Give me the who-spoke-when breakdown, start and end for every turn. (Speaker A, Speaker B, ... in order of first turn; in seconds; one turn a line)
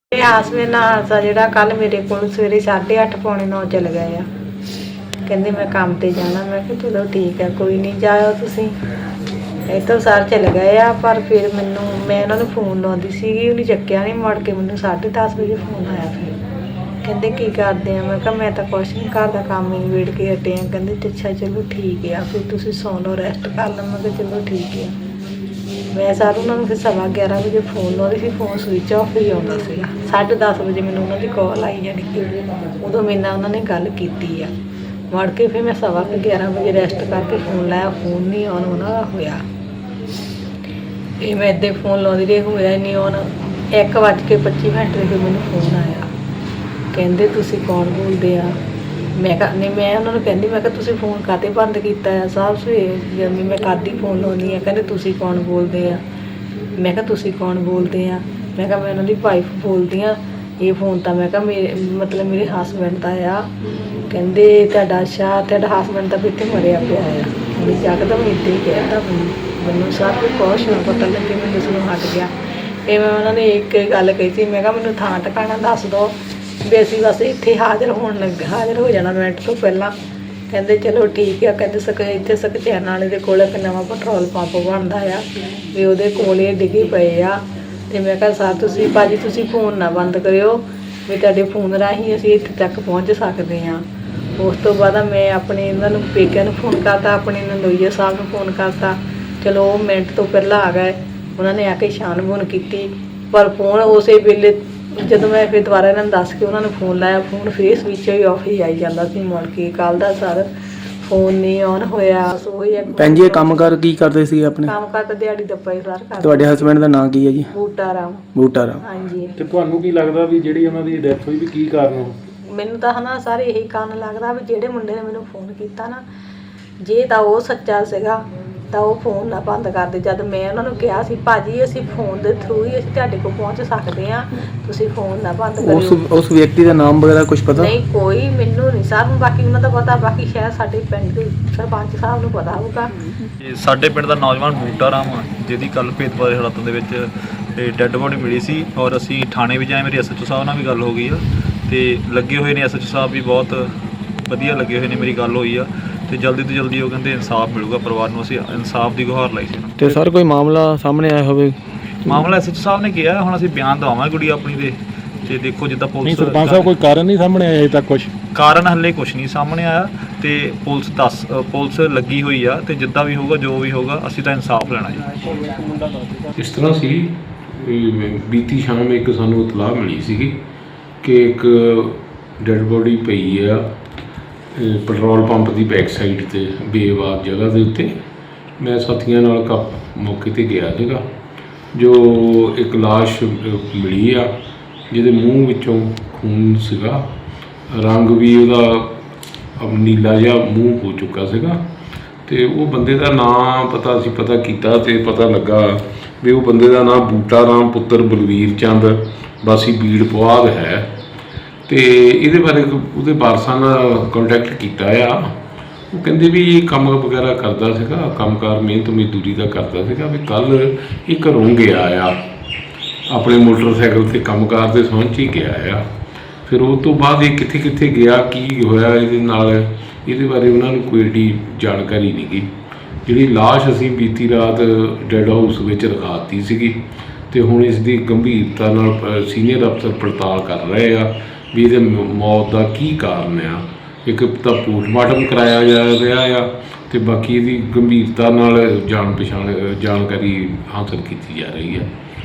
Speaker A: 0.1-4.3
Speaker A: 5.3-8.7
Speaker A: 9.7-16.4
Speaker A: 17.0-24.9
Speaker A: 25.9-34.5
Speaker A: 35.1-39.4
Speaker A: 41.2-46.1
Speaker A: 46.9-48.5
Speaker A: 49.2-56.0
Speaker A: 56.8-63.5
Speaker A: 64.1-72.3
Speaker A: 72.9-76.1
Speaker A: 76.6-79.9
Speaker A: 80.5-93.8
Speaker A: 94.4-110.5
Speaker A: 111.0-113.7
Speaker B: 113.0-114.7
Speaker A: 114.6-116.8
Speaker B: 116.2-117.5
Speaker A: 117.5-118.3
Speaker B: 118.3-118.8
Speaker A: 118.8-119.3
Speaker C: 119.4-122.1
Speaker A: 122.5-126.0
Speaker A: 126.8-136.0
Speaker B: 135.6-137.7
Speaker A: 137.6-142.9
Speaker D: 143.4-153.7
Speaker D: 154.3-159.9
Speaker B: 159.8-161.6
Speaker D: 162.1-166.7
Speaker C: 166.0-168.1
Speaker D: 168.3-175.6
Speaker E: 176.4-180.4
Speaker E: 181.0-183.7
Speaker E: 184.5-187.9
Speaker E: 188.6-191.0
Speaker E: 191.7-194.3
Speaker E: 194.9-197.0
Speaker E: 197.7-199.0
Speaker E: 199.6-201.6
Speaker E: 202.3-210.9
Speaker E: 211.7-215.3
Speaker E: 215.9-222.2
Speaker E: 223.1-225.8
Speaker E: 226.5-232.5
Speaker E: 233.1-236.8
Speaker E: 237.3-251.9